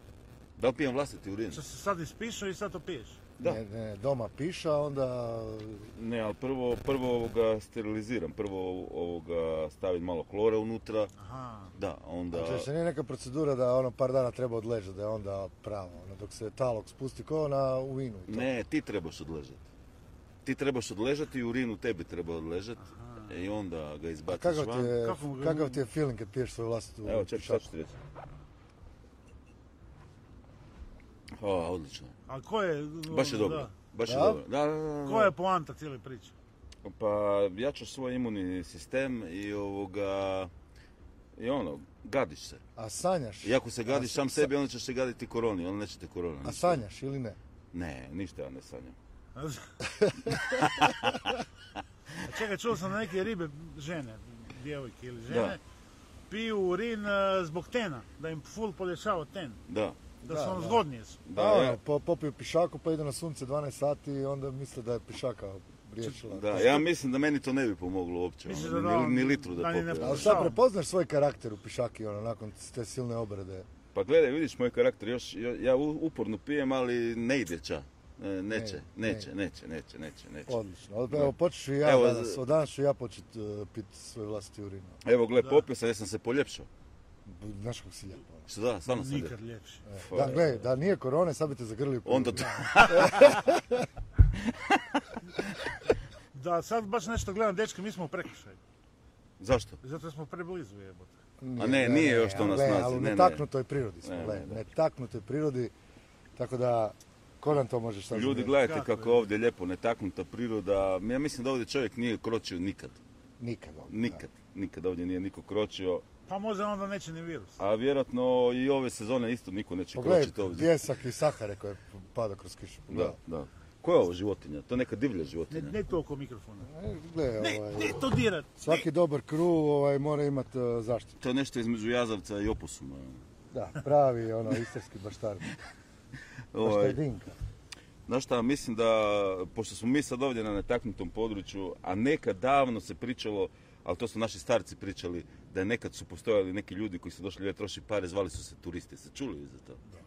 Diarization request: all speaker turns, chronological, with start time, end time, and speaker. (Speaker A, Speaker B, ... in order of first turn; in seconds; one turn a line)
Speaker A: 0.6-1.6
Speaker B: 1.5-3.2
Speaker C: 3.4-5.9
Speaker A: 5.9-11.1
Speaker B: 11.2-11.7
Speaker A: 11.7-12.7
Speaker C: 12.3-18.5
Speaker A: 18.3-19.6
Speaker A: 20.4-24.9
Speaker C: 24.3-27.7
Speaker B: 24.9-25.8
Speaker A: 27.0-28.0
Speaker A: 31.4-32.1
Speaker B: 32.3-33.7
Speaker A: 33.1-35.3
Speaker C: 34.0-34.4
Speaker B: 35.0-36.3
Speaker A: 36.8-40.5
Speaker A: 41.4-42.6
Speaker C: 42.8-44.5
Speaker A: 43.4-46.8
Speaker C: 46.4-47.4
Speaker A: 47.7-48.9
Speaker B: 49.4-49.7
Speaker C: 49.9-50.5
Speaker A: 50.5-51.4
Speaker B: 52.2-55.6
Speaker A: 55.3-55.6
Speaker B: 56.3-59.6
Speaker A: 59.7-60.0
Speaker B: 60.2-61.2
Speaker C: 60.2-66.8
Speaker A: 61.2-61.8
Speaker A: 66.0-70.5
Speaker B: 68.5-70.6
Speaker C: 70.0-73.7
Speaker A: 73.9-80.6
Speaker C: 78.5-79.3
Speaker C: 80.5-85.0
Speaker A: 81.1-82.4
Speaker A: 85.0-86.7
Speaker C: 87.2-88.4
Speaker A: 88.5-89.3
Speaker B: 88.9-89.8
Speaker C: 89.9-93.9
Speaker A: 90.0-90.6
Speaker A: 92.0-93.4
Speaker B: 92.4-93.3
Speaker A: 94.3-95.4
Speaker B: 96.3-98.6
Speaker A: 99.4-99.8
Speaker B: 99.8-101.1
Speaker C: 101.4-105.7
Speaker A: 101.6-103.4
Speaker A: 104.0-104.6
Speaker C: 106.3-108.5
Speaker A: 108.1-113.0
Speaker B: 108.6-109.3
Speaker C: 113.4-114.2
Speaker A: 113.9-116.0
Speaker B: 116.3-117.6
Speaker A: 117.6-120.7
Speaker C: 119.9-123.2
Speaker A: 122.9-125.8
Speaker B: 125.5-126.7
Speaker C: 126.7-128.0
Speaker B: 127.4-128.8
Speaker C: 128.6-131.2
Speaker A: 131.2-133.2
Speaker C: 133.5-135.5
Speaker A: 136.5-137.0
Speaker C: 136.6-137.3
Speaker A: 138.1-149.8